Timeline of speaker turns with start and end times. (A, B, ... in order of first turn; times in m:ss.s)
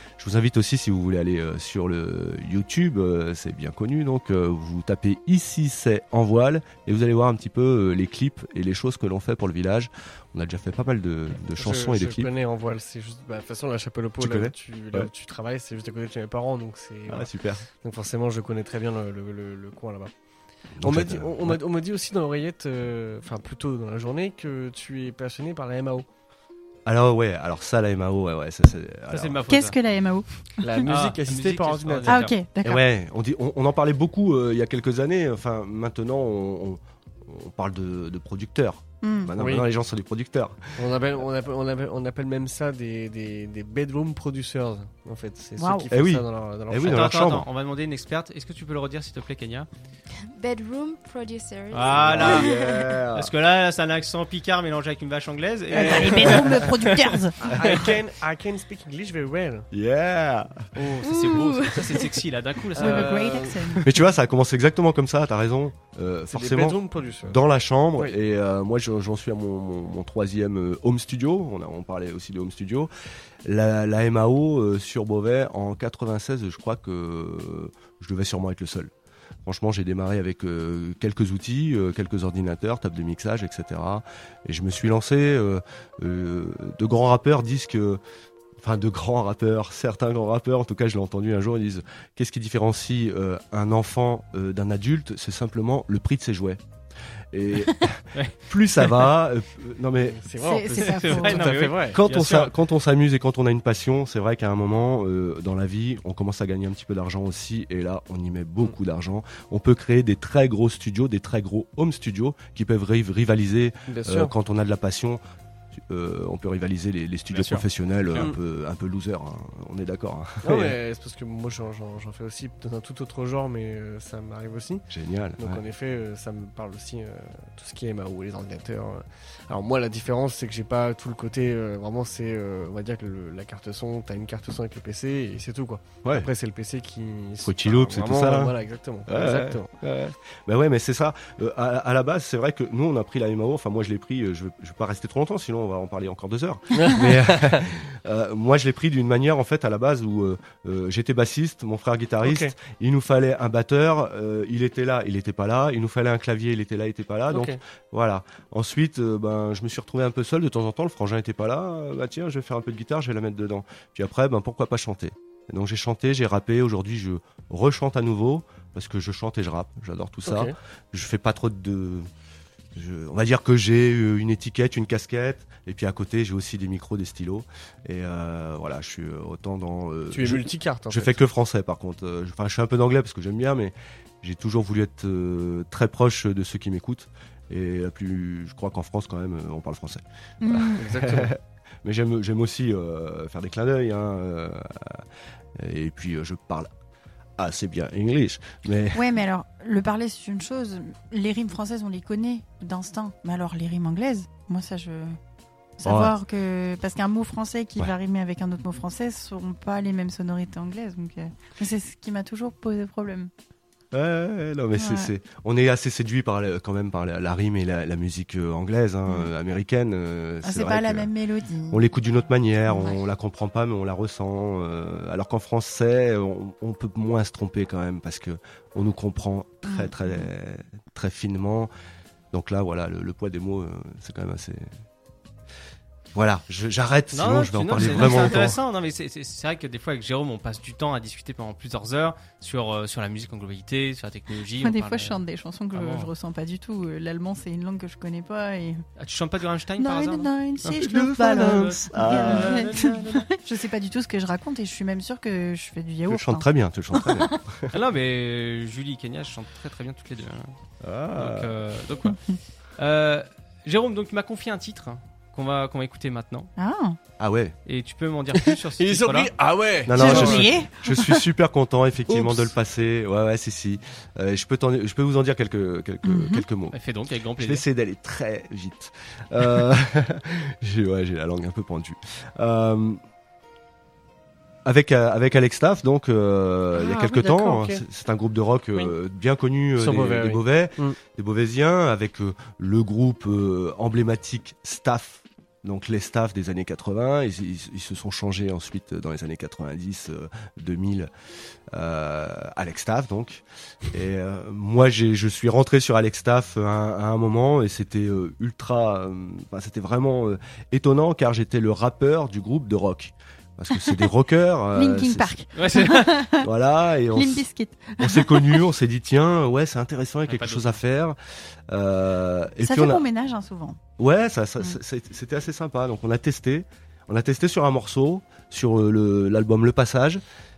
0:00.2-0:12.3 A
0:11.6-0:20.1 B
0:14.2-0:15.1 A
0:17.1-0:17.6 A
0:20.8-0:21.6 A
0:20.8-0:26.0 B
0:26.8-0:29.4 A
0:29.1-0:29.8 C
0:29.5-0:30.9 D
0:30.6-0:32.3 B
0:30.8-0:32.4 C
0:32.1-0:32.8 D
0:32.6-0:40.9 A
0:39.0-0:39.3 D
0:39.4-0:39.7 B
0:40.8-0:47.0 B
0:45.6-0:45.9 D
0:45.9-0:47.4 A
0:46.8-0:49.7 C
0:50.3-0:52.9 E
0:51.7-0:52.5 C
0:51.9-0:53.3 A
0:53.1-0:56.9 C
0:55.7-0:56.4 B
0:55.8-0:57.4 D
0:57.4-0:59.7 B
0:57.5-0:57.8 A
0:57.6-0:57.9 C
0:59.7-1:00.6 A
1:00.7-1:03.5 C
1:01.0-1:02.0 E
1:02.8-1:03.8 B
1:02.8-1:03.9 D
1:03.8-1:12.9 A
1:06.3-1:07.4 B
1:13.4-1:18.9 A
1:19.4-1:28.0 A
1:28.6-1:36.6 A
1:37.3-1:40.2 A
1:38.1-1:38.9 C
1:40.0-1:42.0 B
1:40.4-1:41.5 D
1:40.7-1:42.5 C
1:41.9-1:55.2 A
1:53.9-1:54.3 B
1:55.9-2:00.8 A
1:57.3-1:58.3 C
2:00.4-2:04.8 B
2:04.9-2:05.6 A
2:05.4-2:19.7 B
2:17.4-2:52.1 A
2:26.7-2:27.6 B
2:32.2-2:32.5 B
2:37.3-2:37.6 B
2:50.2-2:50.5 B
2:52.7-3:15.0 A
3:00.1-3:01.2 B
3:10.4-3:10.8 D
3:10.8-3:11.3 B
3:15.6-3:16.7 A
3:17.4-3:19.1 A
3:18.9-3:25.2 D
3:25.8-3:33.3 D
3:25.8-3:26.1 A
3:33.9-3:41.1 A
3:34.8-3:35.1 D
3:40.4-3:41.8 D
3:41.7-3:51.7 A
3:42.7-3:43.0 D
3:49.6-3:50.2 D
3:52.3-3:54.7 A
3:56.1-3:58.6 A
3:57.1-4:05.2 C
3:57.9-3:58.2 D
4:04.6-4:08.8 D
4:05.7-4:06.1 C
4:09.0-4:10.8 C
4:09.8-4:17.3 D
4:10.8-4:12.7 A
4:11.5-4:13.3 C
4:16.1-4:17.7 A
4:17.7-4:20.5 C
4:20.8-4:21.6 A
4:21.2-4:22.2 C
4:22.8-4:26.5 C
4:26.6-4:27.0 D
4:27.2-4:27.6 A
4:27.6-4:29.3 C
4:28.5-4:30.5 B
4:29.8-4:36.8 A
4:29.9-4:31.2 D
4:32.1-4:32.4 B
4:36.0-4:36.4 D
4:36.7-4:37.6 C
4:37.4-4:43.0 A
4:44.6-5:01.1 A
4:46.8-4:47.8 B
4:49.8-4:51.0 B
5:01.7-5:15.3 A
5:14.7-5:16.5 D
5:15.5-5:16.2 C
5:16.4-5:17.4 A
5:17.1-5:18.6 D
5:18.0-5:21.2 A
5:20.3-5:20.8 C
5:21.7-5:23.0 A
5:22.6-5:23.8 D
5:24.0-5:30.2 A